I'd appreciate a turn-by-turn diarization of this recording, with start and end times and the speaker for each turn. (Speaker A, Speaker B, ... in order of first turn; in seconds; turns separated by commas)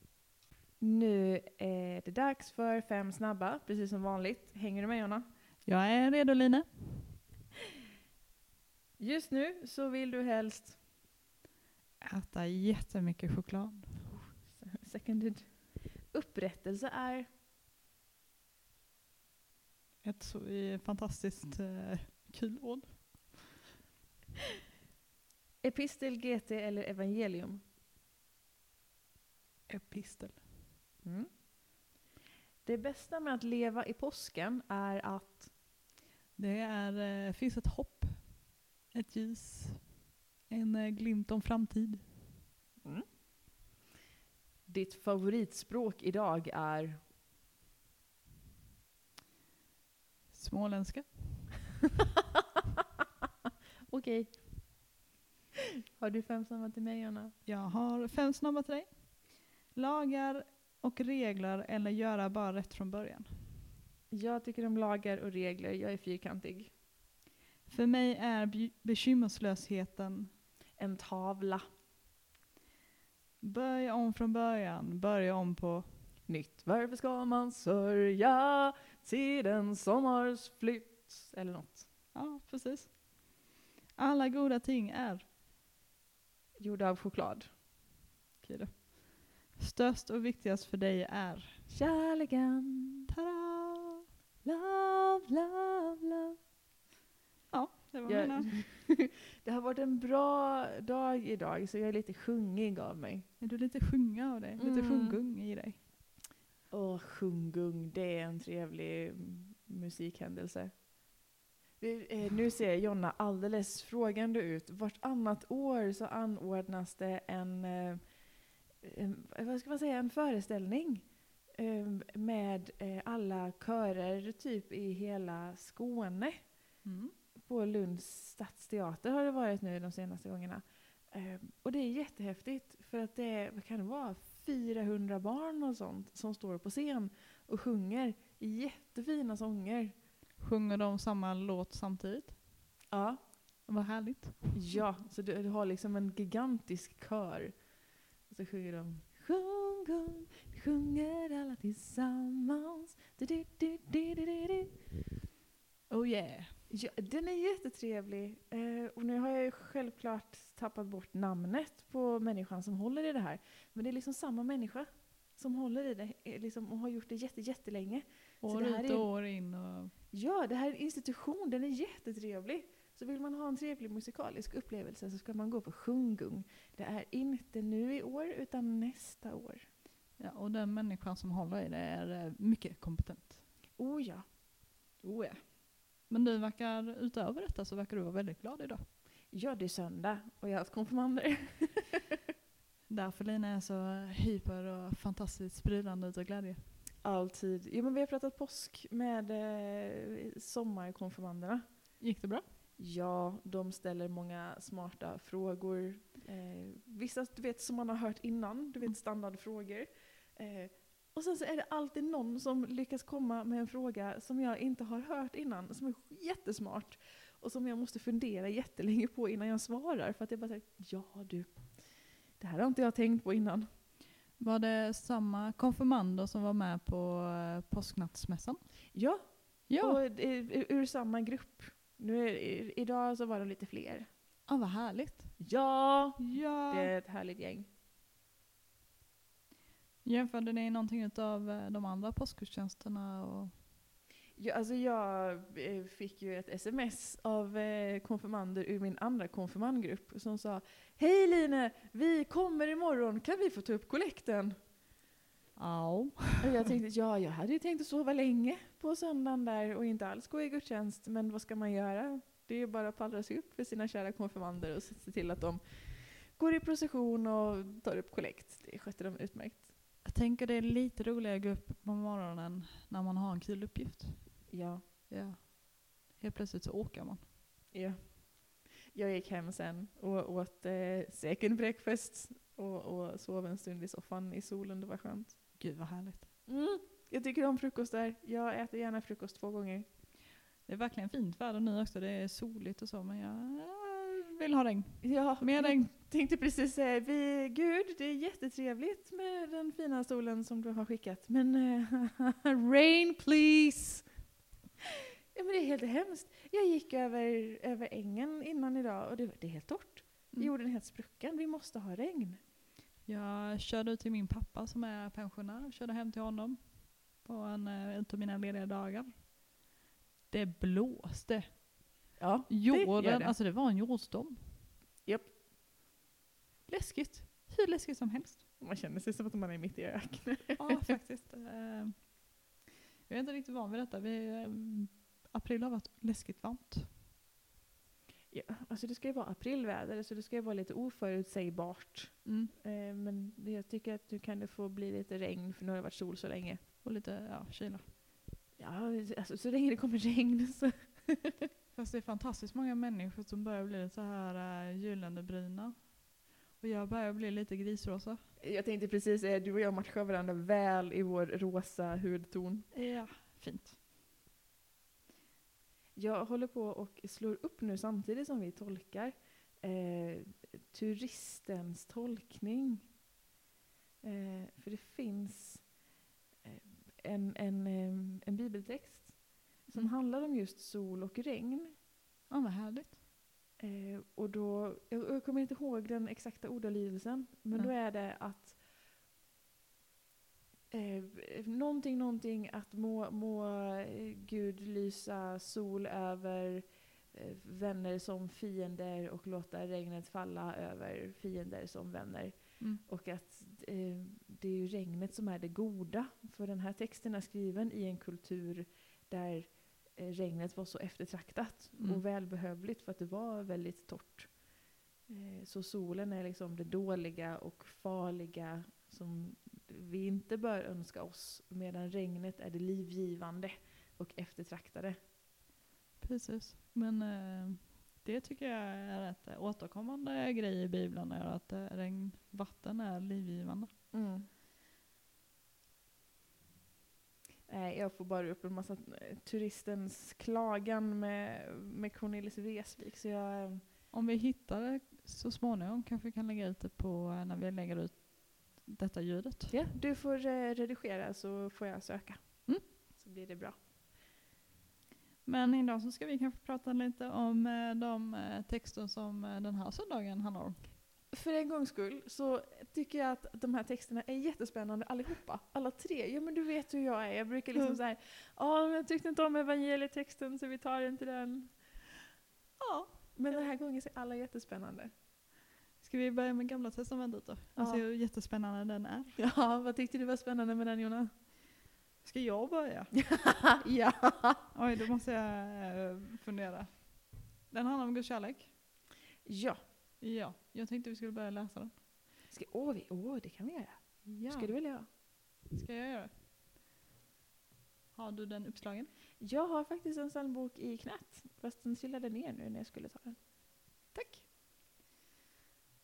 Speaker A: 0.8-5.3, Speaker B: 5.6-7.2, Speaker A: 9.0-10.8, Speaker B: 12.0-14.1, Speaker A: 14.1-17.3, Speaker B: 20.0-23.5, Speaker A: 25.6-27.6, Speaker B: 29.7-30.5, Speaker A: 31.0-31.4, Speaker A: 32.6-35.5, Speaker B: 36.4-40.0, Speaker B: 40.5-42.1, Speaker A: 44.7-47.0, Speaker B: 50.3-51.7, Speaker A: 53.9-54.9, Speaker A: 56.0-57.4, Speaker B: 57.5-63.6, Speaker A: 64.1-66.7, Speaker B: 67.7-70.3, Speaker A: 70.8-71.7, Speaker B: 73.4-76.1, Speaker A: 76.3-81.9, Speaker B: 82.1-83.4, Speaker B: 84.0-85.2, Speaker A: 86.6-87.5, Speaker B: 88.4-91.7, Speaker A: 91.7-93.0, Speaker B: 93.1-94.0, Speaker A: 94.5-96.3, Speaker B: 97.5-98.5, Speaker A: 98.1-103.3, Speaker B: 103.4-105.8, Speaker A: 104.6-105.2, Speaker A: 106.7-110.9, Speaker A: 111.8-126.6, Speaker B: 126.8-127.1, Speaker A: 127.4-140.0, Speaker B: 140.4-142.4, Speaker A: 142.9-143.2, Speaker B: 143.7-144.9, Speaker A: 144.5-154.8, Speaker B: 155.9-156.6, Speaker A: 156.7-169.1, Speaker B: 168.4-169.9, Speaker A: 170.1-179.7, Speaker B: 180.2-183.4, Speaker A: 183.8-184.3, Speaker B: 185.0-188.8, Speaker A: 189.3-192.0, Speaker B: 192.9-196.6, Speaker A: 197.0-202.0, Speaker B: 202.0-202.4, Speaker A: 202.8-223.7, Speaker B: 224.4-228.8, Speaker A: 228.9-234.1, Speaker B: 229.7-230.0, Speaker B: 234.5-235.6, Speaker A: 235.4-237.7, Speaker B: 236.2-236.9, Speaker B: 240.0-243.5, Speaker A: 244.3-254.6, Speaker B: 255.6-256.6, Speaker A: 256.4-269.7, Speaker B: 270.0-274.5, Speaker A: 274.5-274.8, Speaker B: 275.1-277.2, Speaker A: 277.7-285.6, Speaker B: 285.6-286.3, Speaker A: 286.5-289.9, Speaker B: 290.7-295.9, Speaker A: 295.0-304.1, Speaker A: 305.3-312.4, Speaker B: 313.1-319.3, Speaker B: 320.3-324.6, Speaker A: 322.2-323.4, Speaker A: 325.1-325.3, Speaker B: 326.7-328.4, Speaker A: 328.6-330.8, Speaker B: 330.6-332.1, Speaker B: 333.1-336.9, Speaker A: 338.3-346.6, Speaker B: 342.2-342.5, Speaker B: 346.8-347.9, Speaker A: 348.6-351.3, Speaker B: 351.7-358.3, Speaker A: 358.4-362.7, Speaker B: 362.7-363.8, Speaker A: 365.9-372.9, Speaker A: 374.0-375.8, Speaker A: 376.4-381.7, Speaker B: 382.3-383.0, Speaker A: 383.6-388.6, Speaker A: 390.7-414.6, Speaker B: 411.8-412.0, Speaker A: 415.1-425.0, Speaker B: 426.0-433.7, Speaker A: 433.9-434.3, Speaker A: 437.5-443.6, Speaker B: 443.9-449.7, Speaker A: 449.5-453.6, Speaker B: 455.2-460.7, Speaker A: 461.1-471.9, Speaker B: 472.6-473.5, Speaker A: 473.1-474.9, Speaker B: 475.8-479.2, Speaker A: 477.6-477.9, Speaker A: 479.2-481.1, Speaker B: 482.0-483.5, Speaker A: 483.4-484.6, Speaker B: 484.5-488.5, Speaker A: 489.2-489.6, Speaker B: 490.0-491.8, Speaker A: 492.3-494.9, Speaker B: 494.1-496.1, Speaker B: 497.9-498.9, Speaker A: 499.2-503.2, Speaker B: 503.9-504.3